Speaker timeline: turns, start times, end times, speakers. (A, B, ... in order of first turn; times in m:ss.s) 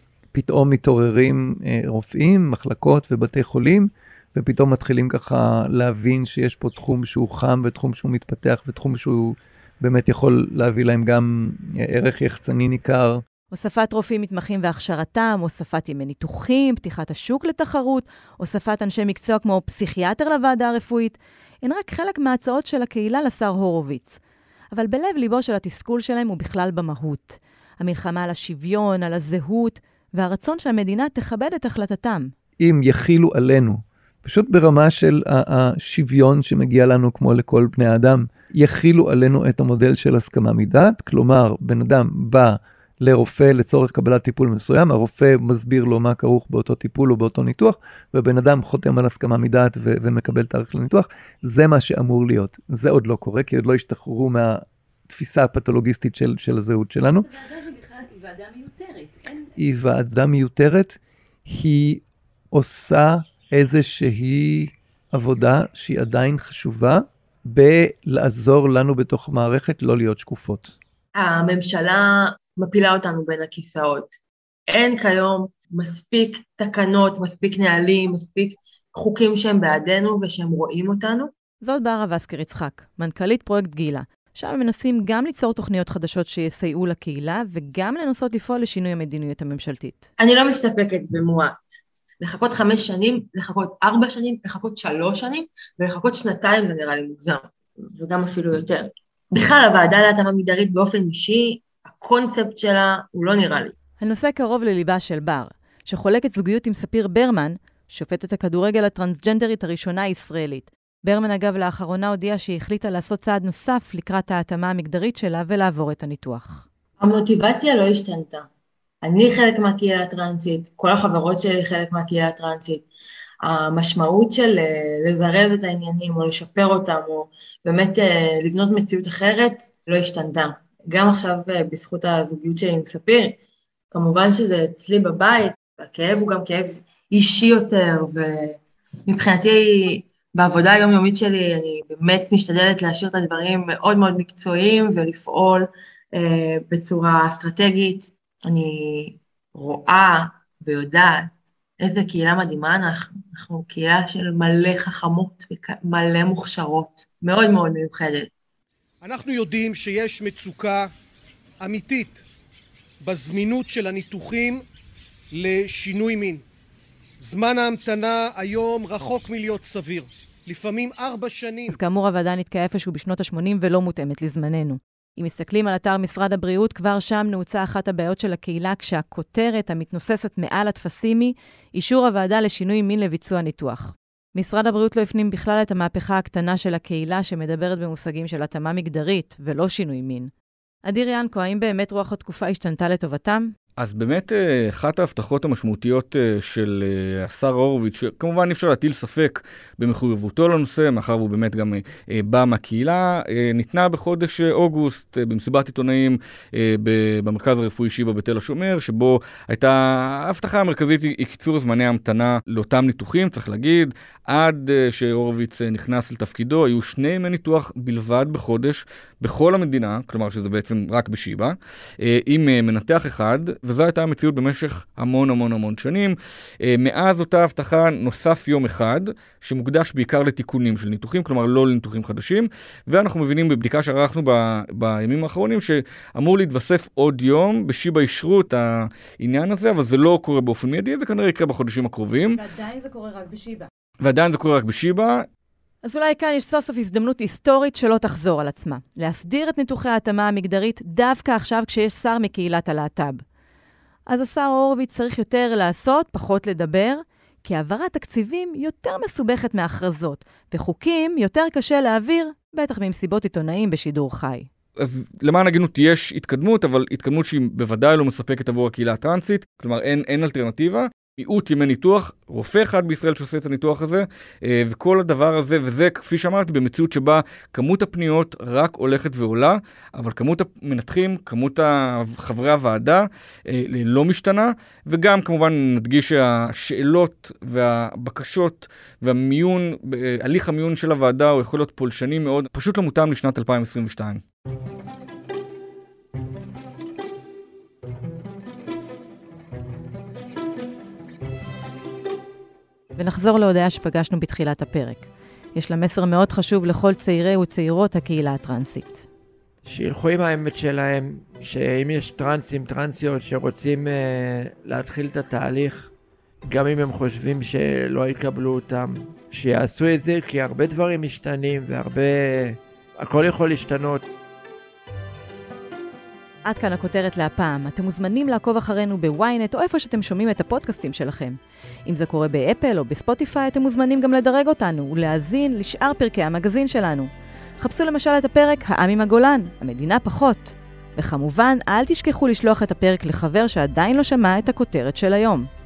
0:00.3-0:13.2 A
0:13.5-0:24.2 B
0:24.7-0:32.3 B
0:32.6-0:57.3 A
0:57.3-0:59.3 B
0:59.6-1:10.8 A
1:11.2-1:14.1 C
1:14.7-1:21.3 C
1:21.6-1:30.1 B
1:30.2-1:31.7 C
1:32.2-1:43.7 C
1:44.0-1:56.6 B
1:57.0-1:58.5 C
1:59.0-2:02.9 C
2:03.4-2:13.4 C
2:13.9-2:38.3 C
2:39.0-2:40.9 D
2:41.6-2:42.2 D
2:43.0-2:44.6 D
2:45.3-2:46.4 D
2:47.2-2:51.8 D
2:51.7-3:10.3 B
3:10.9-3:13.5 B
3:13.8-4:02.4 E
4:02.3-4:03.7 B
4:04.0-4:05.3 E
4:05.8-4:13.2 B
4:14.1-4:24.5 B
4:24.8-4:54.2 E
5:03.0-5:09.0 B
5:09.7-5:15.9 F
5:16.5-5:24.0 F
5:26.5-5:45.5 B